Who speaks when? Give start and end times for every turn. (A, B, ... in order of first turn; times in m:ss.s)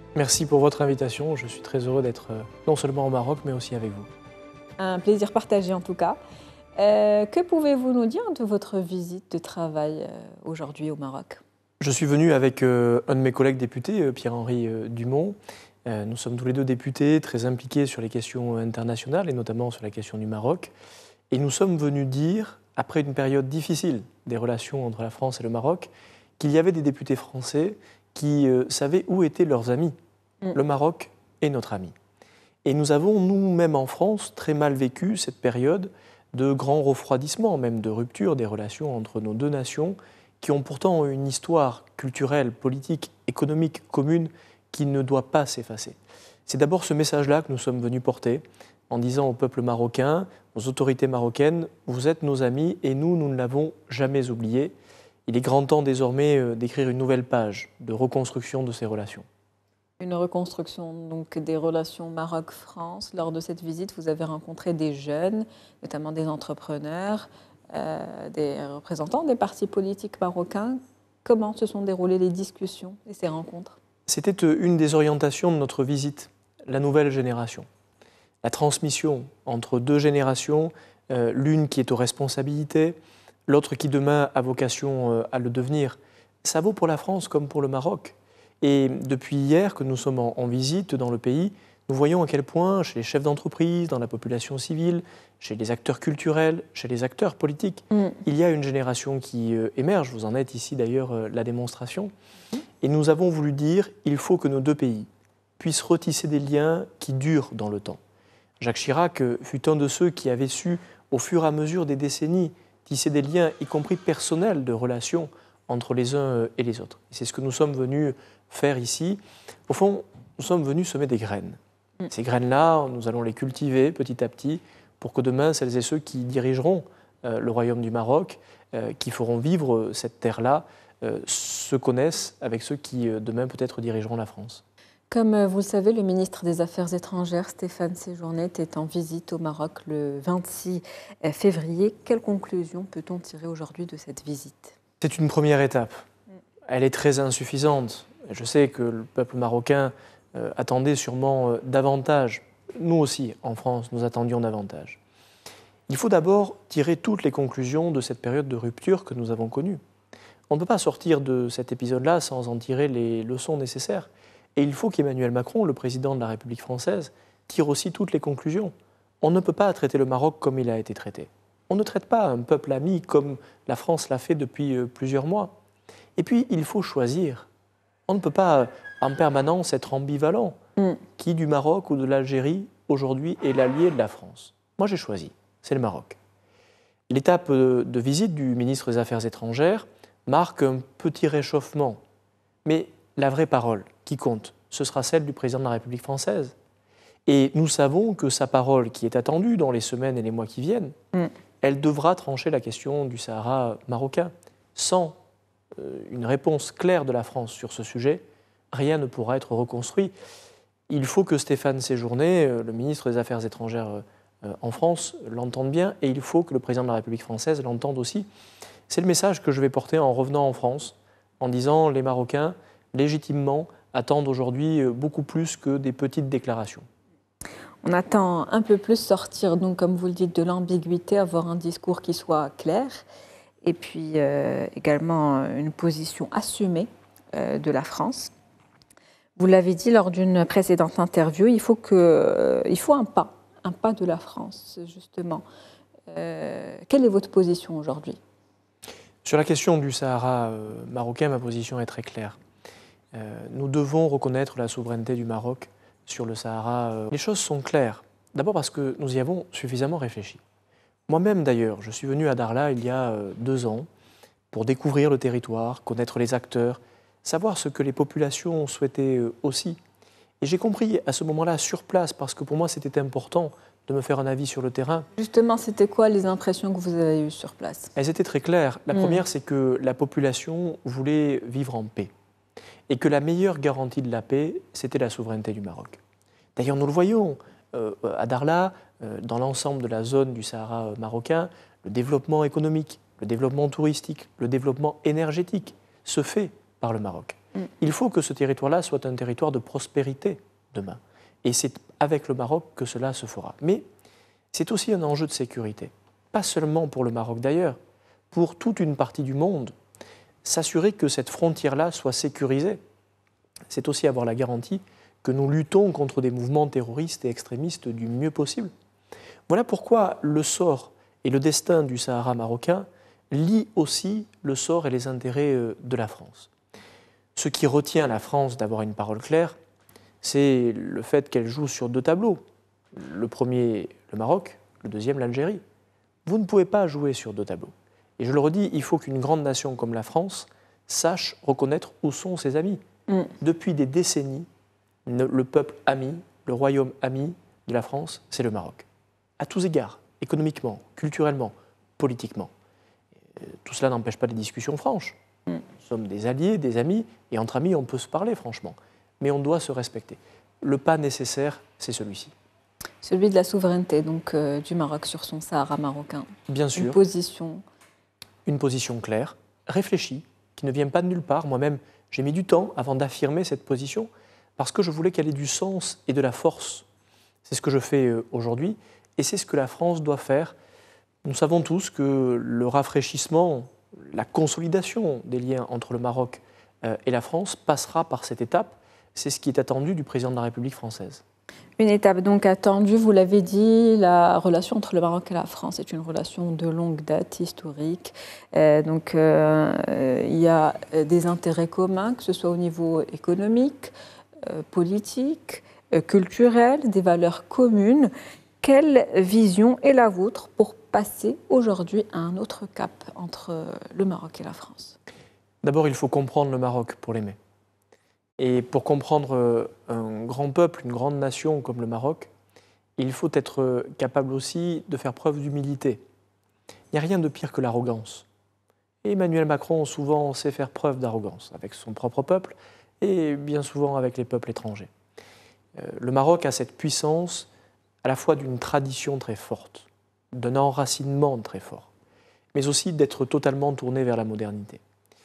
0:00.2-0:04.1 A
0:04.8-0:06.2 B
0:06.8-0:11.4 B
0:11.8-0:20.7 A
0:21.3-0:30.0 A
0:30.5-0:31.9 A
0:32.6-0:54.8 A
0:55.3-0:59.3 A
1:00.0-1:13.8 B
1:14.1-1:17.7 A
1:18.4-1:42.1 A
1:42.8-1:45.1 A
1:45.6-1:48.0 A
1:48.6-2:01.6 A
2:02.1-2:14.6 A
2:15.1-2:24.8 B
2:25.0-2:26.0 A
2:26.7-2:35.0 A
2:35.9-2:39.8 A
2:40.5-2:55.5 A
2:56.2-2:57.5 A
2:58.1-3:00.6 A
3:01.2-3:06.2 A
3:07.1-3:12.0 A
3:12.6-3:16.6 A
3:17.3-3:20.9 A
3:21.6-3:25.2 A
3:25.8-3:30.1 A
3:30.9-3:38.3 A
3:38.9-3:46.9 A
3:47.8-3:53.1 B
3:53.6-3:58.3 B
3:59.4-4:05.4 B
4:06.1-4:08.2 B
4:09.2-4:12.4 A
4:13.1-4:20.4 A
4:21.1-4:23.9 A
4:24.5-4:29.8 A
4:30.4-4:35.1 A
4:35.2-4:37.9 B
4:38.0-4:42.1 A
4:38.9-4:39.2 B
4:42.9-4:46.0 A
4:46.6-5:03.8 A
5:04.5-5:07.8 A
5:08.3-5:09.8 A
5:10.4-5:12.8 A
5:13.7-5:18.7 A
5:19.5-5:26.5 A
5:27.4-5:29.6 A
5:30.2-5:32.4 A
5:32.9-5:35.6 A
5:36.2-5:42.8 A
5:43.4-5:44.5 A
5:45.1-5:48.9 A
5:49.4-5:52.5 A
5:53.4-5:55.2 A
5:55.8-6:02.3 A
6:03.0-6:07.6 B
6:06.5-6:07.0 A
6:08.5-6:16.9 A
6:17.4-6:20.6 A
6:21.2-6:31.2 A
6:31.8-6:43.9 B
6:44.4-6:48.1 B
6:48.6-6:55.0 B
6:55.6-6:57.4 A
6:58.4-7:02.3 A
7:03.0-7:06.0 A
7:06.9-7:08.3 A
7:09.0-7:14.9 A
7:15.8-7:17.5 A
7:18.0-7:21.9 A
7:22.5-7:24.8 A